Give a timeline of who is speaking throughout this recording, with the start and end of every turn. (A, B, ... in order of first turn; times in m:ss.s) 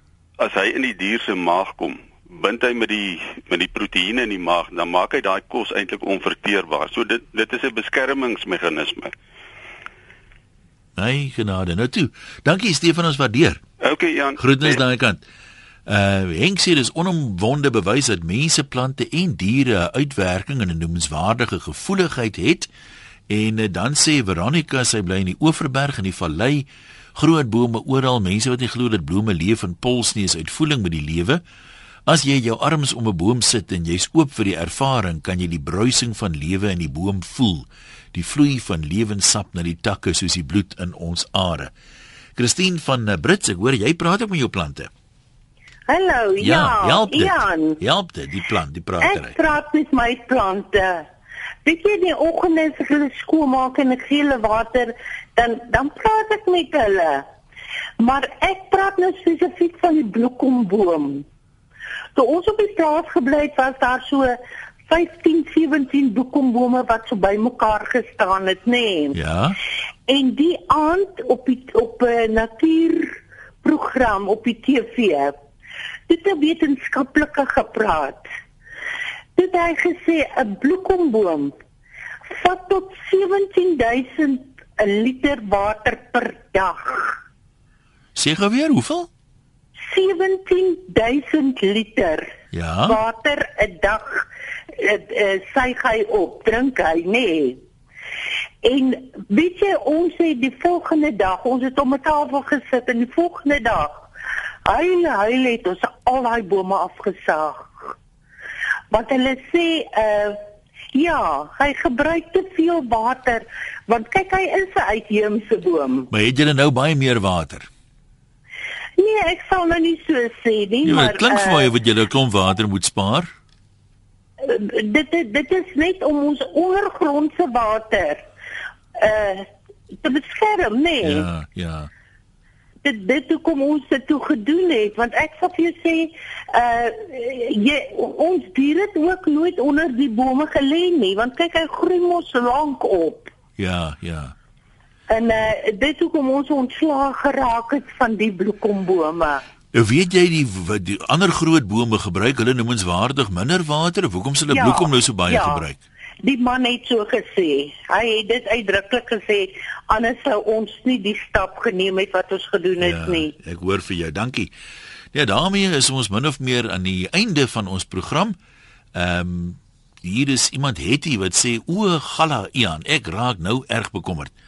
0:00.4-0:09.1 A
0:11.0-0:13.6 B
0:13.8-0:14.8 A
0:14.4-0:15.2 B
0:15.9-0:22.7 B
0:23.3-0:31.4 B
0:32.1-0:41.7 B
0:42.4-0:44.9 B
0:45.9-0:47.8 C
0:46.4-0:49.4 B
0:49.0-0:51.1 C
0:51.6-0:57.2 C
0:58.0-1:01.2 C
1:02.2-1:04.4 C
1:04.9-1:09.2 C
1:09.1-1:09.6 B
1:10.1-1:15.4 C
1:16.1-1:18.3 C
1:19.4-1:21.6 C
1:22.3-1:27.2 C
1:28.2-1:29.1 B
1:29.9-1:32.3 C
1:32.5-1:33.0 B
1:32.8-1:37.6 C
1:38.6-1:44.0 C
1:44.7-1:47.9 C
1:48.9-1:50.4 C
1:50.9-1:56.1 C
1:56.1-1:57.7 B
1:59.0-2:01.7 C
2:00.8-2:03.3 B
2:04.4-2:08.3 C
2:09.0-2:11.3 C
2:11.0-2:11.9 B
2:12.8-2:23.3 C
2:23.6-2:24.4 B
2:25.1-2:29.4 C
2:29.7-2:35.8 B
2:34.5-2:35.7 C
2:36.2-2:43.4 C
2:42.8-2:44.5 B
2:45.1-2:48.4 B
2:49.0-2:54.3 B